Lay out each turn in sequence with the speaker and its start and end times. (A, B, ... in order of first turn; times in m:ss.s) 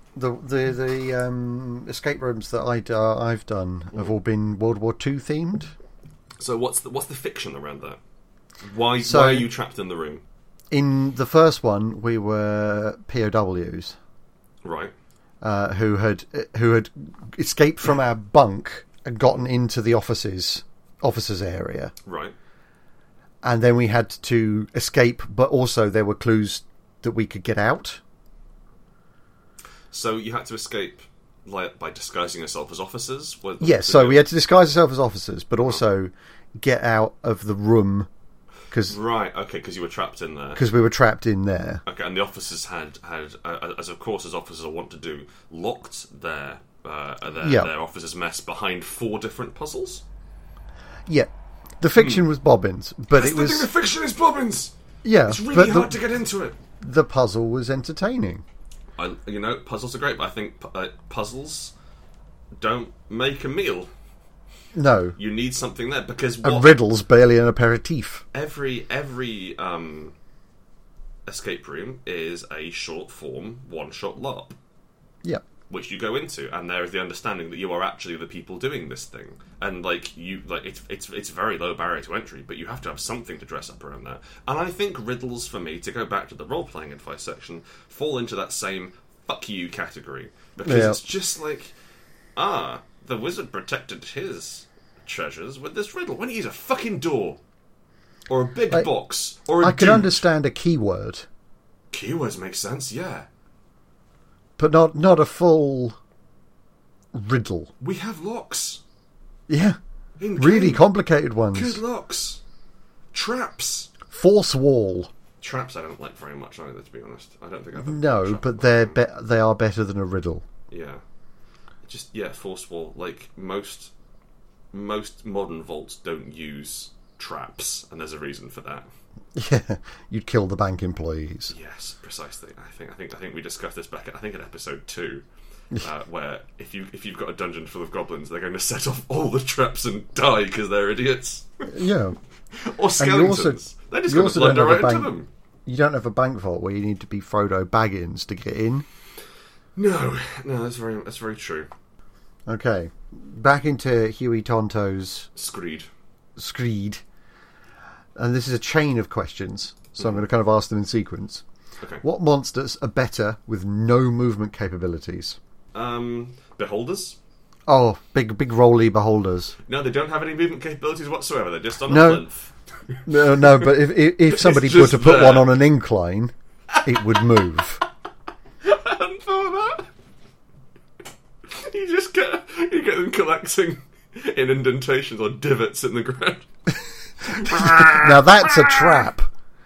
0:00.2-0:05.7 A
0:06.4-0:08.0 B
0:08.6-0:10.2 B
0:09.0-0:09.5 A
0:10.7-0:14.0 A
0:14.6-0:14.9 B
0:15.4-0:21.9 A
0:22.1-0:22.4 B
0:23.4-0:28.0 A
0:29.9-0:34.3 B
0:33.6-0:38.1 A
0:38.7-0:39.0 A
0:38.9-0:40.6 B
0:40.6-0:41.8 A
0:41.9-0:50.0 B
0:47.4-0:47.7 A
0:51.1-0:53.7 A
0:52.0-0:52.3 B
0:53.1-0:54.7 B
0:55.0-0:56.0 A
0:55.2-0:56.6 B
0:56.8-0:58.4 A
0:59.0-1:01.7 B
1:02.6-1:03.9 B
1:04.8-1:05.2 A
1:05.2-1:06.8 B
1:06.4-1:08.2 A
1:08.3-1:10.1 B
1:11.3-1:14.6 B
1:15.7-1:31.7 B
1:30.6-1:31.0 A
1:32.4-1:37.4 B
1:38.3-1:40.2 B
1:39.6-1:41.3 A
1:41.9-1:43.3 B
1:44.6-1:46.0 A
1:47.1-1:47.7 A
1:47.8-1:48.8 B
1:49.5-1:49.8 A
1:50.2-1:50.9 B
1:50.4-1:51.8 A
1:51.5-1:52.4 B
1:53.1-1:53.9 B
1:54.1-1:55.1 A
1:55.4-1:59.0 B
1:57.8-2:00.4 A
2:00.7-2:01.0 B
2:01.8-2:03.9 B
2:04.7-2:08.9 B
2:09.4-2:11.5 A
2:11.5-2:15.2 B
2:15.8-2:21.7 B
2:21.7-2:22.2 A
2:22.6-2:25.3 B
2:23.0-2:25.1 A
2:25.7-2:28.9 A
2:29.8-2:31.7 B
2:32.5-2:35.3 A
2:35.4-2:35.9 B
2:36.4-2:37.0 A
2:38.2-2:41.4 A
2:42.0-2:45.4 A
2:45.7-2:47.2 B
2:47.7-2:49.6 A
2:49.7-2:53.6 B
2:51.9-2:52.2 A
2:53.1-2:56.3 A
2:54.3-2:55.6 B
2:56.7-2:57.2 B
2:56.8-2:57.8 A
2:58.6-2:59.9 B
3:01.5-3:06.5 B
3:07.2-3:09.0 B
3:07.3-3:09.3 A